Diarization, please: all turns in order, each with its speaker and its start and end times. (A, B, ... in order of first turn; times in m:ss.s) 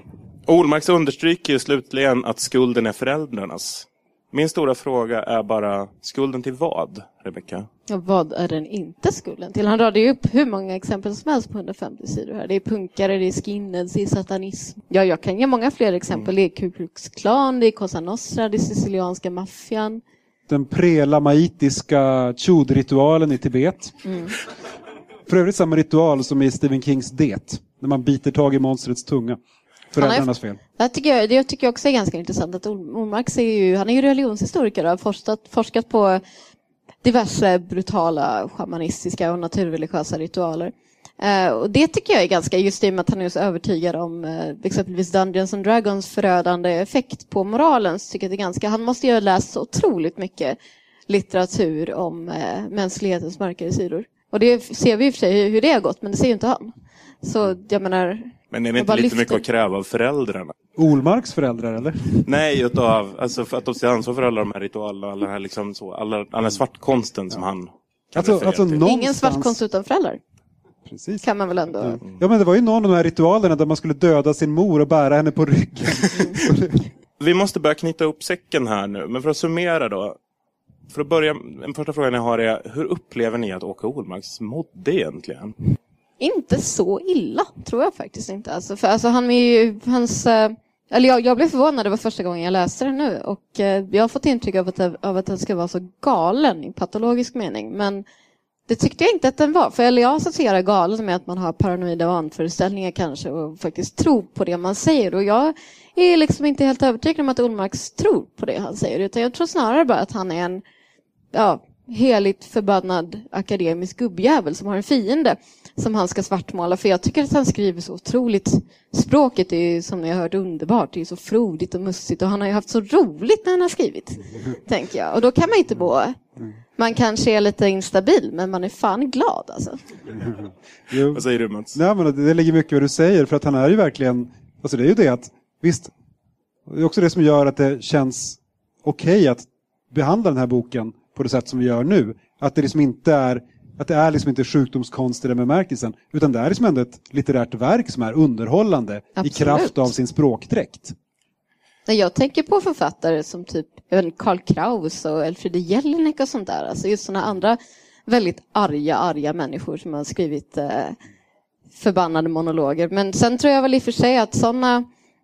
0:00.5-0:07.7 A
0:07.9-0:20.0 B
0:20.5-0:24.0 C
0:24.1-0:24.3 B
0:25.3-0:29.4 C
0:29.9-0:30.6 C
0:30.0-0:36.2 B
0:37.0-0:50.6 B
0:51.1-0:59.4 B
0:58.5-1:00.5 A
1:00.8-1:02.3 C
1:02.2-1:08.8 A
1:08.2-1:09.6 C
1:08.8-1:10.2 B
1:10.9-1:11.2 C
1:11.2-1:12.0 B
1:11.8-1:16.8 C
1:17.2-1:20.2 A
1:20.9-1:25.6 A
1:26.2-1:38.0 B
1:38.7-1:50.6 B
1:51.3-2:06.2 B
2:06.8-2:09.8 B
2:10.9-2:11.2 C
2:11.1-2:11.8 A
2:11.7-2:15.9 C
2:16.7-2:31.0 C
2:29.2-2:29.9 B
2:31.9-2:41.0 B
2:41.8-2:44.9 B